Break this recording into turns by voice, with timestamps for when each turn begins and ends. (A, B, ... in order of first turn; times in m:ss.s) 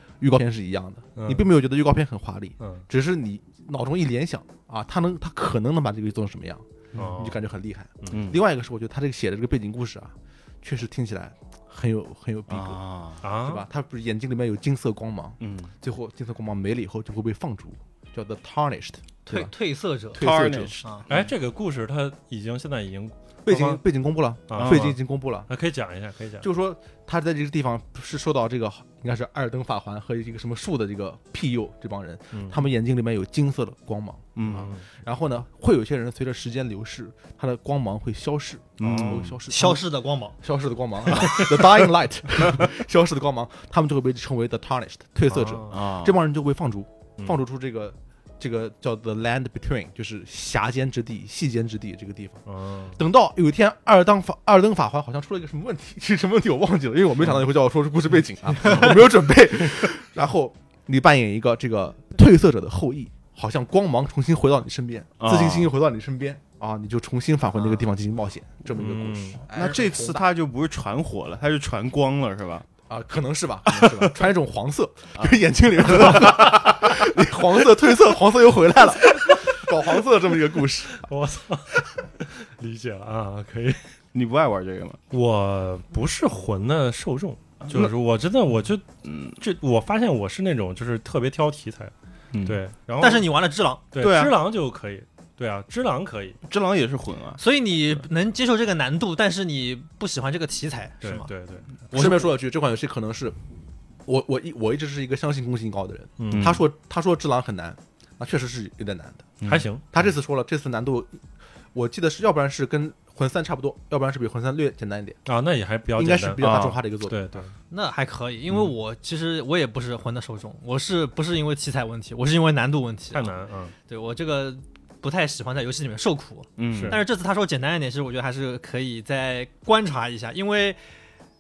0:00.2-0:12.8 A
0:01.2-0:01.4 B
0:06.9-0:07.4 B
0:08.1-0:08.4 C
0:12.5-0:13.2 C
0:13.2-0:13.6 B
0:13.4-0:19.5 A
0:15.4-0:15.7 C
0:19.3-0:20.3 D
0:20.1-0:20.8 A
0:20.1-0:21.3 C
0:21.1-0:23.8 B
0:23.4-0:25.5 A
0:24.5-0:26.4 B
0:24.6-0:24.9 C
0:26.4-0:39.8 A
0:32.3-0:32.6 B
0:34.4-0:34.7 C
0:34.4-0:34.8 B
0:38.8-0:39.4 C
0:38.8-0:39.3 B
0:39.5-0:40.4 D
0:40.4-0:52.4 A
0:41.2-0:41.5 B
0:45.3-0:45.8 B
0:45.7-0:46.2 C
0:52.4-0:53.0 B
0:53.0-1:10.2 A
0:58.6-0:59.0 C
1:05.2-1:05.7 C
1:08.8-1:09.4 B
1:09.5-1:12.6 C
1:12.9-1:21.0 A
1:13.7-1:14.2 C
1:15.9-1:17.0 C
1:20.9-1:23.8 B
1:24.1-1:25.0 C
1:25.1-1:31.9 B
1:27.6-1:27.9 C
1:29.0-1:29.4 C
1:32.3-1:32.6 C
1:32.4-1:33.3 B
1:33.0-1:33.8 D
1:33.9-1:36.4 B
1:34.0-1:34.3 C
1:36.4-1:37.4 C
1:37.4-1:41.3 D
1:41.0-1:41.8 B
1:41.9-1:42.3 D
1:41.9-1:43.4 A
1:44.0-1:49.4 A
1:46.2-1:46.6 B
1:46.3-1:46.6 C
1:49.4-1:49.6 C
1:49.4-1:50.0 B
1:49.9-1:55.2 A
1:55.2-1:57.5 B
1:56.0-1:57.4 A
1:57.7-2:03.3 D
2:03.1-2:03.7 B
2:03.9-2:10.8 D
2:06.6-2:07.0 C
2:06.7-2:07.0 B